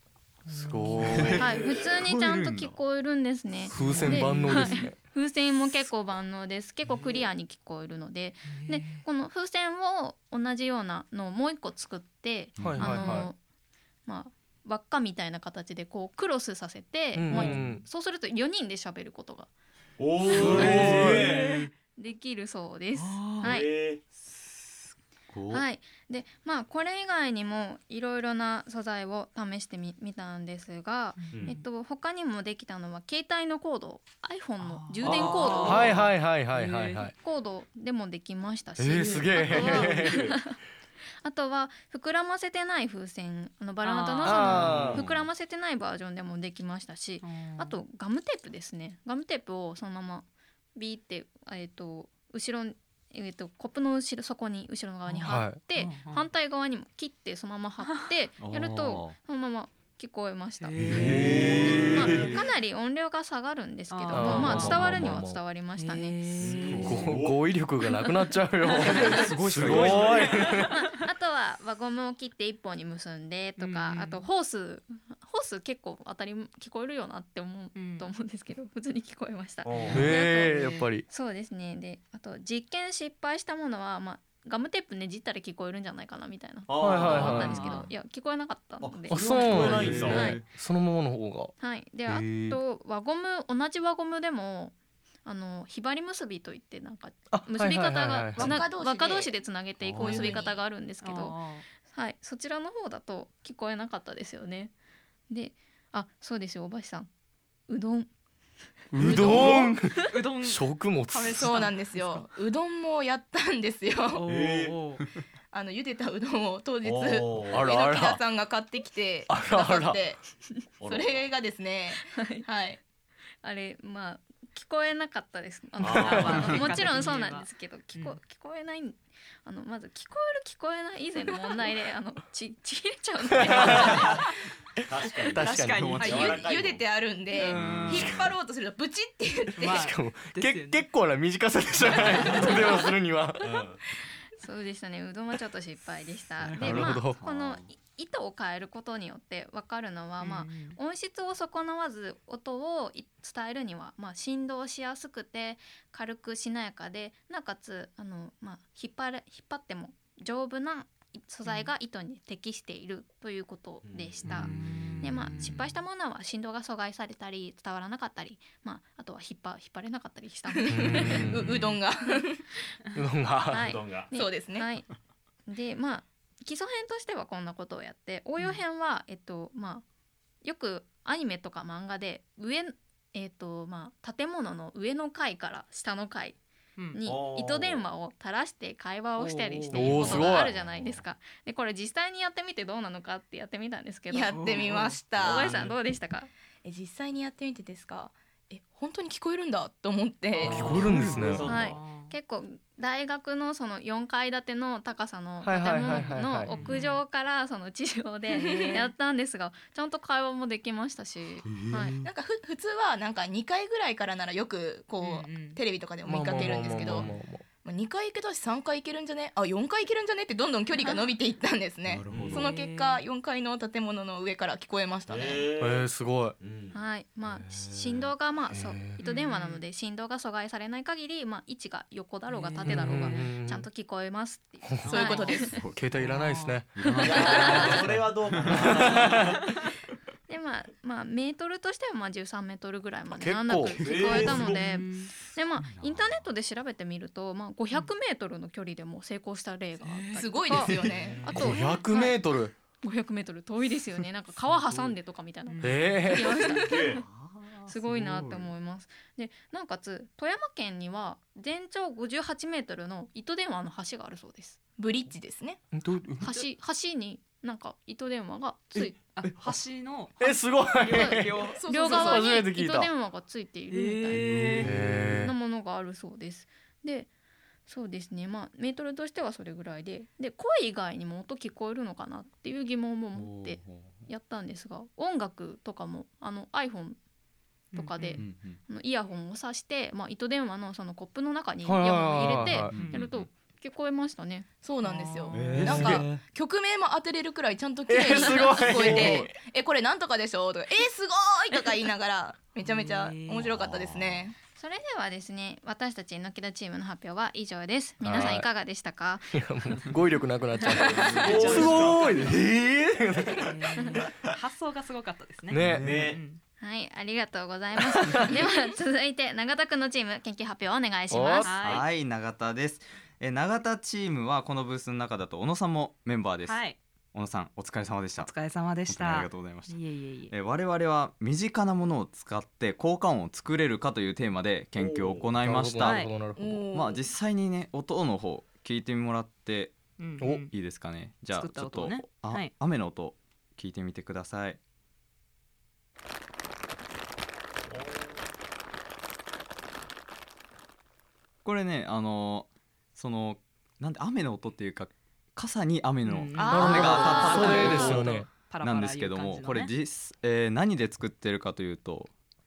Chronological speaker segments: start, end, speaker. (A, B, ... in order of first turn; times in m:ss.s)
0:00.5-0:01.4 A
0:00.5-0:01.4 B
0:01.1-0:02.8 C
0:01.3-0:01.8 D
0:01.4-0:13.4 E
0:03.7-0:05.0 B
0:03.8-0:04.8 A
0:08.5-0:09.0 A
0:12.6-0:12.9 C
0:12.6-0:13.3 B
0:14.0-0:19.5 E
0:17.1-0:17.8 B
0:17.3-0:17.8 C
0:20.0-0:21.6 D
0:20.3-0:21.2 C
0:20.4-0:21.3 B
0:20.5-0:21.1 E
0:21.1-0:21.7 A
0:22.0-0:23.7 E
0:23.4-0:24.0 D
0:24.1-0:25.6 C
0:25.5-0:36.0 E
0:31.2-0:31.6 A
0:34.6-0:37.1 A
0:35.1-0:36.1 D
0:35.6-0:37.1 B
0:37.2-0:40.6 E
0:38.8-0:40.2 B
0:38.9-0:40.4 D
0:41.2-1:06.5 E
0:43.8-0:44.8 A
0:44.2-0:45.0 B
0:44.6-0:45.1 D
0:47.2-0:47.8 A
0:55.1-0:56.2 A
0:55.2-0:55.6 B
0:58.4-0:59.2 C
1:00.6-1:01.6 A
1:00.8-1:02.4 C
1:00.9-1:02.3 D
1:03.9-1:04.9 A
1:04.1-1:05.4 B
1:04.4-1:05.1 C
1:05.8-1:07.1 A
1:06.4-1:07.5 D
1:06.6-1:07.2 C
1:06.8-1:10.7 B
1:08.8-1:10.3 C
1:09.5-1:10.5 D
1:10.7-1:30.4 E
1:13.6-1:14.2 A
1:17.7-1:18.1 A
1:19.6-1:20.2 D
1:19.9-1:21.0 B
1:26.7-1:27.8 D
1:26.8-1:27.7 B
1:27.0-1:27.9 A
1:28.8-1:30.3 D
1:29.1-1:31.5 B
1:29.6-1:30.4 C
1:31.6-1:34.7 E
1:32.1-1:32.6 B
1:35.2-1:44.7 E
1:37.3-1:38.6 B
1:38.4-1:39.3 F
1:39.8-1:40.3 C
1:40.0-1:40.6 F
1:41.0-1:41.6 A
1:45.3-1:47.1 E
1:47.7-1:48.1 E
1:48.9-1:51.5 B
1:49.0-1:49.7 F
1:49.0-1:49.7 E
1:50.0-1:52.2 A
1:51.3-1:54.2 F
1:54.1-1:55.0 A
1:54.2-1:54.8 D
1:55.5-2:00.2 F
1:56.8-1:57.7 D
1:57.5-1:58.2 B
1:59.3-2:00.0 B
2:00.8-2:01.3 D
2:00.8-2:02.8 F
2:02.1-2:02.4 E
2:03.4-2:14.1 E
2:05.8-2:07.1 D
2:05.9-2:08.2 A
2:13.4-2:14.0 B
2:13.6-2:14.2 F
2:14.9-2:16.8 D
2:15.2-2:16.0 B
2:15.4-2:16.4 A
2:15.6-2:19.8 F
2:15.7-2:16.4 C
2:17.4-2:17.7 A
2:17.5-2:18.3 C
2:17.6-2:17.9 B
2:19.6-2:20.8 A
2:19.7-2:23.6 B
2:21.9-2:22.6 A
2:22.0-2:22.2 D
2:23.4-2:23.8 D
2:24.4-2:51.3 E
2:26.4-2:26.9 A
2:26.6-2:27.2 B
2:27.2-2:27.7 C
2:30.2-2:30.8 A
2:43.8-2:44.4 D
2:44.4-2:45.5 A
2:50.5-2:52.4 F
2:50.7-2:51.8 B
2:52.9-2:53.7 B
2:53.4-2:54.9 E
2:53.5-2:54.1 D
2:54.1-2:54.7 F
2:55.5-2:59.8 E
3:00.4-3:06.4 E
3:06.9-3:16.3 E
3:07.0-3:07.9 D
3:09.2-3:10.3 A
3:09.7-3:10.5 B
3:10.5-3:11.0 C
3:14.1-3:15.6 F
3:14.3-3:14.9 A
3:15.2-3:15.7 D
3:16.6-3:21.2 F
3:20.4-3:21.8 D
3:20.4-3:21.5 B
3:21.4-3:22.1 A
3:21.4-3:31.9 E
3:25.4-3:26.5 B
3:25.9-3:27.0 A
3:28.3-3:28.8 A
3:28.3-3:28.8 F
3:31.5-3:32.1 C
3:32.0-3:37.1 F
3:35.0-3:35.6 A
3:36.0-3:37.4 B
3:36.8-3:37.1 D
3:37.6-3:45.5 F
3:41.9-3:42.5 C
3:42.1-3:42.4 D
3:42.3-3:43.0 A
3:45.1-3:45.9 D
3:45.6-3:46.4 B
3:46.4-3:46.8 D
3:46.7-3:55.4 E
3:47.3-3:48.0 C
3:48.5-3:49.0 B
3:49.0-3:49.6 A
3:52.3-3:53.2 A
3:52.6-3:53.6 B
3:54.6-3:55.0 B
3:54.8-3:55.3 A
3:54.9-3:55.6 F
3:55.5-3:56.1 C
3:55.7-3:56.9 B
3:56.0-3:57.8 A
3:56.7-3:58.8 C
3:57.0-3:59.4 D
3:57.1-3:57.7 E
3:58.4-3:59.3 B
4:00.3-4:12.2 E
4:03.1-4:03.9 B
4:03.7-4:04.6 D
4:03.8-4:04.5 C
4:04.2-4:05.1 A
4:05.3-4:06.3 C
4:09.8-4:11.4 F
4:11.0-4:11.5 D
4:11.3-4:12.5 B
4:12.8-4:17.0 E
4:14.5-4:14.9 C
4:15.5-4:16.0 A
4:15.6-4:16.4 B
4:16.5-4:17.0 D
4:17.1-4:18.5 C
4:17.6-4:24.6 E
4:24.8-4:25.6 F
4:25.7-4:26.3 B
4:26.2-4:29.0 E
4:29.1-4:31.6 A
4:29.3-4:29.6 C
4:30.2-4:32.9 B
4:30.9-4:37.1 E
4:31.5-4:32.4 F
4:33.7-4:34.7 A
4:34.2-4:35.2 C
4:34.6-4:35.3 B
4:37.7-4:47.0 E
4:43.1-4:44.1 C
4:47.7-4:48.2 A
4:47.7-4:54.5 E
4:48.2-4:48.6 C
4:51.6-4:52.8 B
4:52.7-4:53.3 C
4:52.7-4:53.0 A
4:54.6-5:04.4 F
4:54.8-4:55.6 A
4:55.3-4:56.2 C
4:55.5-4:56.1 B
4:57.9-4:59.3 B
4:58.8-4:59.3 C
5:02.6-5:03.5 A
5:03.5-5:04.2 C
5:04.6-5:09.3 E
5:08.0-5:08.5 B
5:09.3-5:13.5 B
5:11.0-5:12.0 C
5:11.1-5:12.3 D
5:11.2-5:11.7 F
5:11.3-5:11.7 A
5:13.4-5:16.4 A
5:15.5-5:15.9 B
5:15.6-5:16.1 C
5:15.8-5:16.2 D
5:16.6-5:21.5 E
5:21.1-5:21.6 B
5:21.4-5:21.9 A
5:21.6-5:36.1 C
5:26.4-5:26.8 A
5:28.2-5:30.3 A
5:34.8-5:35.4 D
5:35.4-5:36.6 B
5:35.8-5:36.1 A
5:36.4-5:37.0 F
5:36.7-5:44.6 C
5:40.0-5:40.5 A
5:41.3-5:42.5 A
5:47.7-5:48.2 D
5:51.4-6:02.1 C
5:56.0-5:59.7 A
5:56.4-5:58.0 F
5:56.5-5:58.3 B
5:57.2-5:57.6 D